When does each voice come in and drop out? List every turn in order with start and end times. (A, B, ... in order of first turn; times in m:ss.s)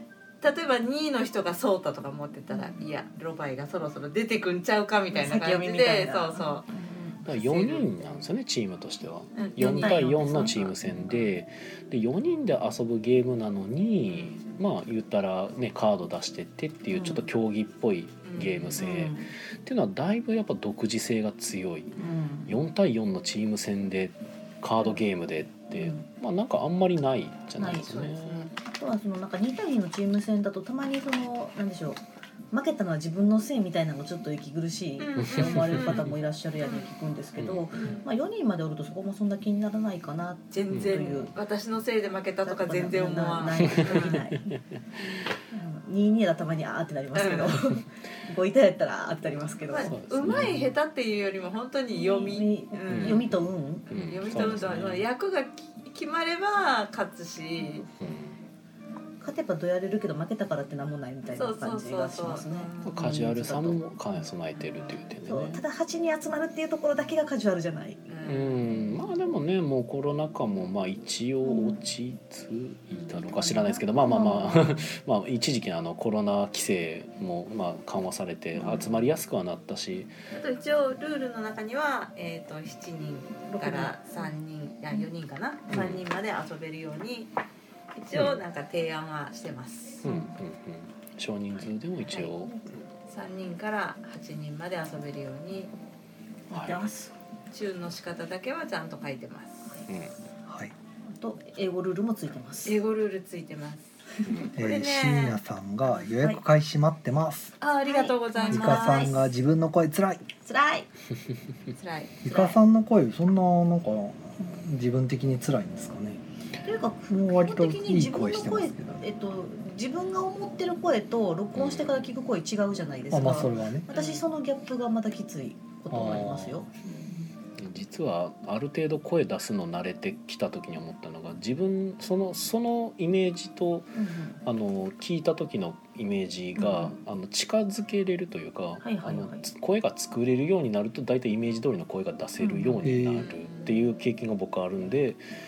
0:00.4-0:06.6 A
0:02.5-0:02.8 B
0:05.1-0:07.2 B
0:07.2-0:07.9 A
0:07.2-0:21.9 C
0:09.3-0:11.4 A
0:09.6-0:10.6 B
0:14.1-0:14.4 A
0:16.9-0:17.2 B
0:18.2-0:18.9 A
0:18.8-0:19.3 B
0:22.0-0:22.6 B
0:22.5-0:28.5 C
0:25.7-0:26.0 B
0:27.6-0:32.0 B
0:27.8-0:28.5 A
0:32.5-0:41.3 B
0:35.0-0:36.1 A
0:35.2-0:36.1 C
0:36.6-0:36.9 A
0:37.4-0:37.9 C
0:37.7-0:38.0 A
0:40.5-0:44.2 A
0:40.7-0:41.2 C
0:42.4-0:44.6 B
0:43.6-0:44.8 C
0:45.5-0:50.0 B
0:47.1-0:47.6 A
0:49.7-0:53.2 A
0:49.8-0:50.7 C
0:51.9-0:53.9 B
0:52.9-0:55.0 C
0:53.9-0:57.8 A
0:57.6-0:58.1 B
0:58.0-0:58.4 C
0:59.2-1:03.8 B
1:01.3-1:03.2 A
1:02.8-1:05.6 C
1:04.6-1:05.0 A
1:05.2-1:08.0 B
1:08.1-1:08.8 A
1:08.2-1:20.1 C
1:11.4-1:11.8 B
1:12.9-1:13.4 A
1:13.4-1:14.9 B
1:18.6-1:18.9 B
1:20.3-1:27.3 A
1:23.5-1:24.3 B
1:25.7-1:26.0 C
1:28.0-1:30.0 A
1:28.1-1:28.4 C
1:30.0-1:32.6 C
1:30.0-1:30.3 B
1:32.4-1:32.7 B
1:33.0-1:35.7 A
1:36.5-1:37.1 B
1:36.5-1:36.8 C
1:37.5-1:39.8 A
1:40.5-1:40.7 D
1:41.1-1:42.8 B
1:42.6-1:45.4 A
1:44.5-1:47.5 D
1:47.6-1:49.1 A
1:47.8-1:49.2 B
1:48.5-1:50.2 D
1:50.4-1:50.9 B
1:51.7-1:52.2 A
1:52.2-1:56.2 D
1:52.3-1:52.6 B
1:56.6-2:07.3 B
1:57.1-1:59.0 D
2:01.5-2:02.0 C
2:03.1-2:03.9 D
2:03.9-2:04.2 A
2:05.9-2:06.7 D
2:07.6-2:25.2 C
2:13.9-2:14.4 B
2:16.6-2:16.9 B
2:18.8-2:19.4 B
2:22.4-2:22.9 B
2:22.8-2:23.3 D
2:23.2-2:23.8 A